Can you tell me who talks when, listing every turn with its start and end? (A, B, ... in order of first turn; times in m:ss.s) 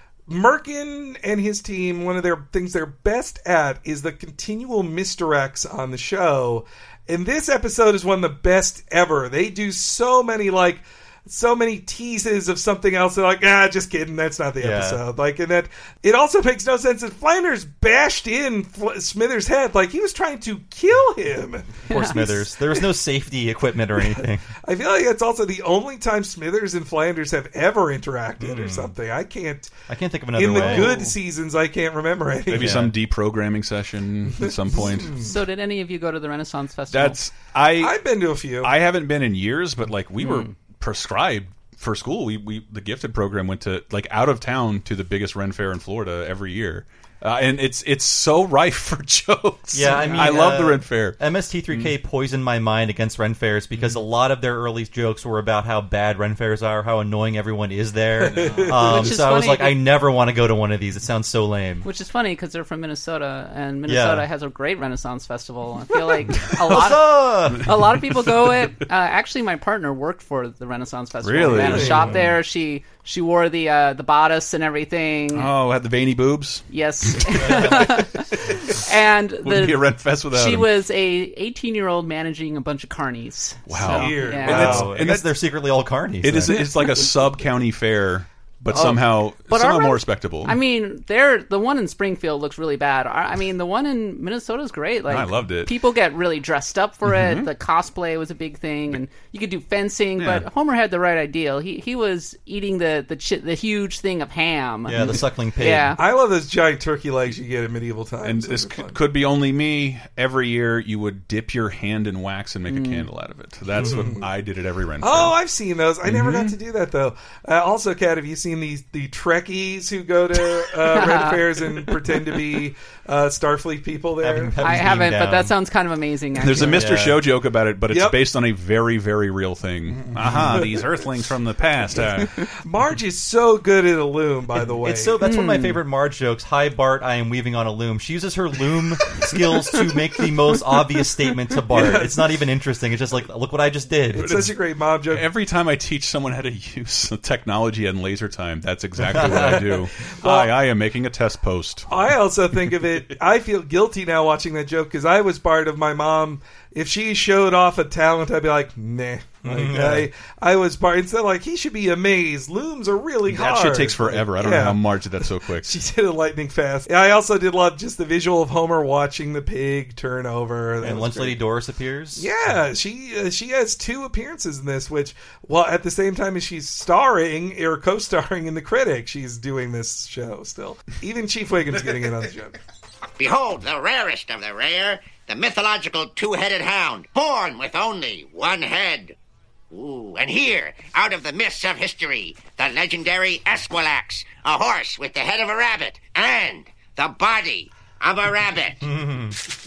0:00.3-0:22.5 A
0:14.6-0:15.0 B
0:21.9-0:24.4 B
0:21.9-0:22.2 C
0:24.6-0:29.7 A
0:28.4-0:28.9 B
0:29.9-0:31.0 B
0:30.4-0:32.9 A
0:30.6-0:30.9 C
0:32.5-0:35.3 D
0:32.6-0:32.9 B
0:34.8-0:35.1 A
0:35.2-0:37.2 C
0:36.9-0:38.0 D
0:37.8-0:38.7 A
0:38.6-0:51.2 D
0:40.2-0:40.5 C
0:49.7-1:01.8 B
0:49.9-0:50.4 C
0:58.3-0:58.7 A
0:58.8-0:59.8 C
1:01.8-1:15.5 C
1:03.9-1:04.2 B
1:06.6-1:07.7 B
1:07.5-1:08.7 D
1:11.2-1:12.2 D
1:11.6-1:12.1 A
1:15.3-1:18.8 D
1:16.7-1:24.8 C
1:17.4-1:17.9 B
1:19.4-1:20.7 D
1:23.7-1:25.3 D
1:23.9-1:24.9 A
1:24.4-1:26.6 B
1:26.2-1:30.6 D
1:29.5-1:46.0 C
1:35.1-1:35.7 D
1:37.0-1:37.5 D
1:40.2-1:40.4 D
1:44.8-1:46.0 B
1:46.0-1:49.0 A
1:48.2-1:55.3 D
1:52.7-1:53.0 C
1:53.8-1:54.2 A
1:53.8-1:54.1 B
1:55.0-2:04.6 A
1:56.0-1:56.5 D
2:00.9-2:01.4 C
2:04.2-2:05.5 B
2:04.6-2:06.8 C
2:06.4-2:12.3 D
2:06.6-2:07.2 B
2:07.9-2:08.2 A
2:10.2-2:11.0 A
2:11.9-2:15.2 A
2:14.8-2:24.4 B
2:15.2-2:15.8 C
2:21.7-2:22.2 A
2:24.1-2:25.2 A
2:24.2-2:24.5 D
2:25.1-2:31.9 D
2:29.1-2:29.6 B
2:29.2-2:30.5 A
2:31.9-2:44.8 A
2:39.4-2:40.1 B
2:43.3-2:45.7 D
2:45.6-2:51.4 A
2:50.8-2:52.3 B
2:52.2-3:02.6 A
3:03.2-3:09.2 E
3:09.7-3:18.8 E
3:18.8-3:19.4 B